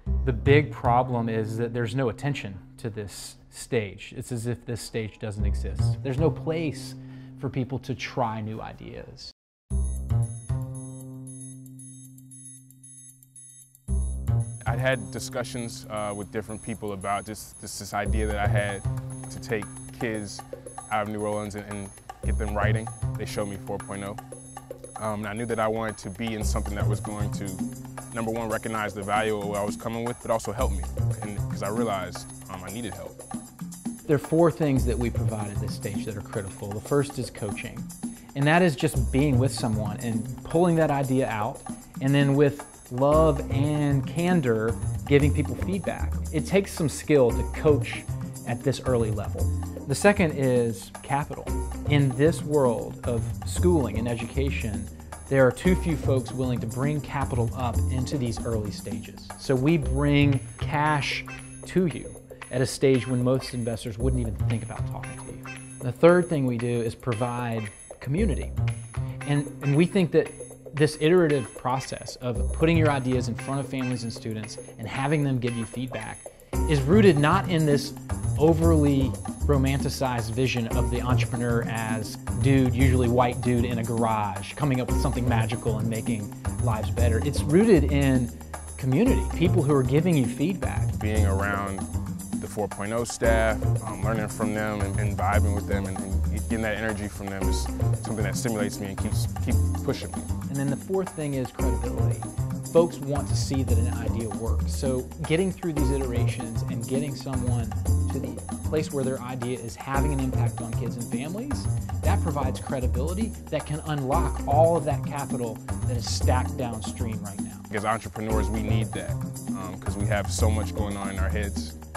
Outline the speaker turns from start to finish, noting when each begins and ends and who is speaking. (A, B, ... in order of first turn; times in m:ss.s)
0:00.2-0:09.3 A
0:14.7-0:24.2 B
0:25.0-0:33.2 B
0:34.1-1:08.6 A
1:09.2-1:30.9 A
1:31.0-1:31.9 B
1:32.4-1:40.3 B
1:40.5-1:57.7 A
1:57.7-2:01.8 B